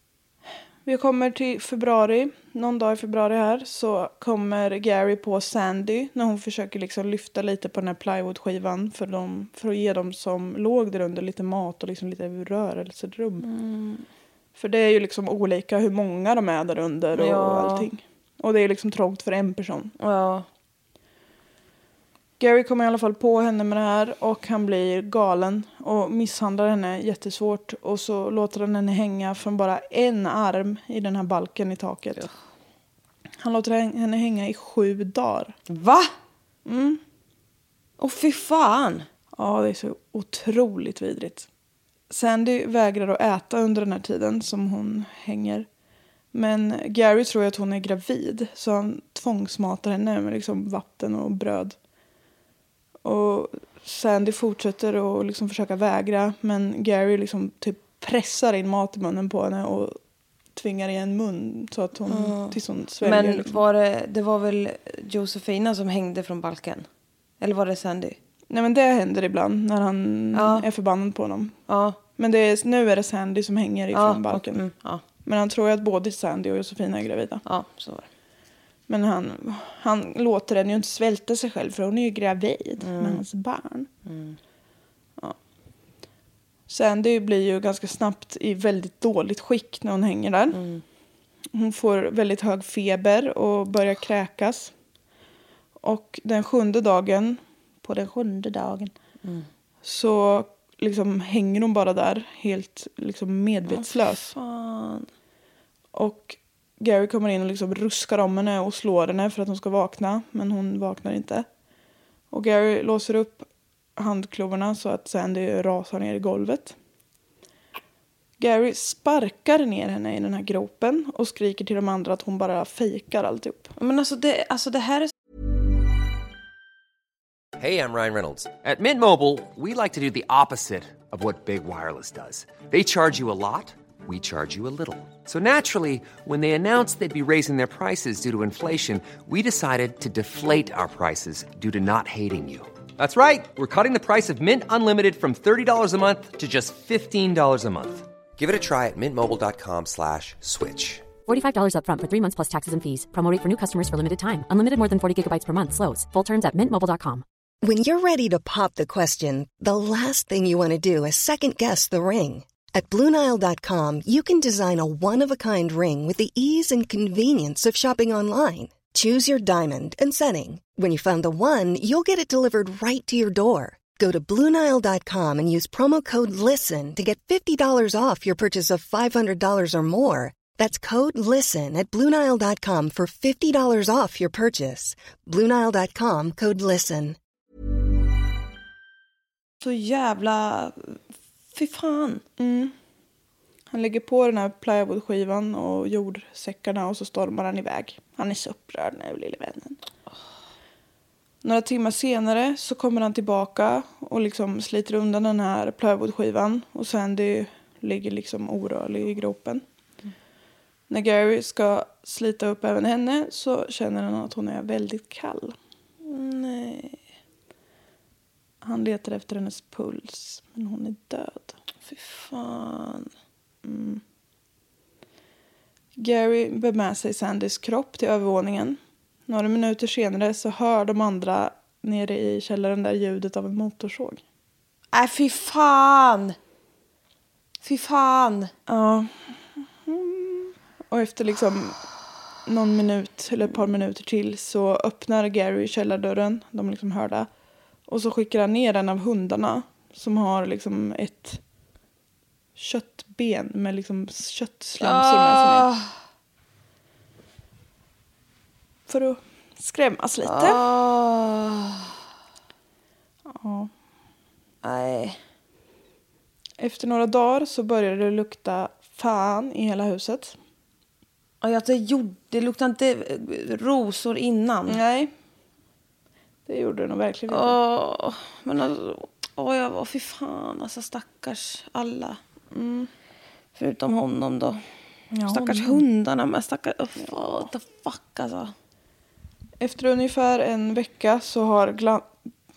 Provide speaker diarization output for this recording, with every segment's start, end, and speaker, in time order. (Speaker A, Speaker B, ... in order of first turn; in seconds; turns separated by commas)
Speaker A: 0.8-13.4, Speaker B: 13.4-14.1, Speaker A: 14.5-19.9, Speaker B: 17.1-17.9, Speaker B: 20.0-20.4, Speaker A: 22.4-32.3, Speaker A: 33.4-35.5, Speaker B: 35.7-36.1, Speaker A: 36.6-37.0, Speaker B: 38.0-39.1, Speaker A: 39.3-41.5, Speaker A: 42.1-45.7, Speaker A: 46.3-51.8, Speaker A: 53.0-60.0, Speaker A: 60.5-63.6, Speaker B: 62.1-66.9, Speaker B: 67.4-68.2, Speaker A: 68.5-71.5, Speaker B: 70.3-70.7, Speaker B: 71.7-72.0, Speaker A: 72.2-74.6, Speaker B: 73.9-75.0, Speaker A: 75.2-77.4, Speaker B: 77.4-78.1, Speaker A: 78.9-83.9, Speaker B: 82.8-83.2, Speaker B: 84.0-84.4, Speaker A: 86.7-90.6, Speaker B: 90.5-90.8, Speaker A: 91.5-94.7, Speaker A: 95.8-98.9, Speaker A: 99.8-104.3, Speaker B: 103.7-105.1, Speaker A: 105.9-111.5, Speaker A: 112.3-116.8, Speaker A: 118.4-123.7, Speaker B: 123.8-125.1, Speaker C: 127.6-151.0, Speaker D: 151.2-157.2, Speaker E: 157.6-187.2, Speaker B: 189.6-191.0, Speaker B: 191.5-192.2, Speaker A: 192.4-192.7, Speaker A: 193.7-199.8, Speaker A: 201.4-209.6, Speaker A: 210.9-215.6, Speaker B: 216.0-217.0, Speaker A: 218.6-221.5, Speaker B: 221.8-223.1, Speaker A: 223.6-224.0, Speaker A: 225.9-234.2, Speaker B: 234.9-236.3, Speaker B: 237.6-238.5, Speaker A: 238.7-241.8, Speaker A: 242.4-247.3, Speaker A: 247.9-251.4, Speaker A: 252.6-255.7, Speaker B: 254.8-255.9, Speaker A: 258.9-260.6, Speaker B: 260.2-261.9, Speaker A: 263.3-263.7, Speaker B: 264.6-265.2, Speaker A: 266.6-270.4, Speaker B: 271.4-274.8, Speaker A: 274.7-275.1, Speaker A: 276.4-277.6, Speaker B: 277.3-282.2, Speaker A: 282.5-282.9, Speaker B: 283.6-284.6, Speaker A: 285.1-285.8, Speaker B: 285.3-288.5, Speaker A: 287.0-287.5, Speaker A: 289.6-292.1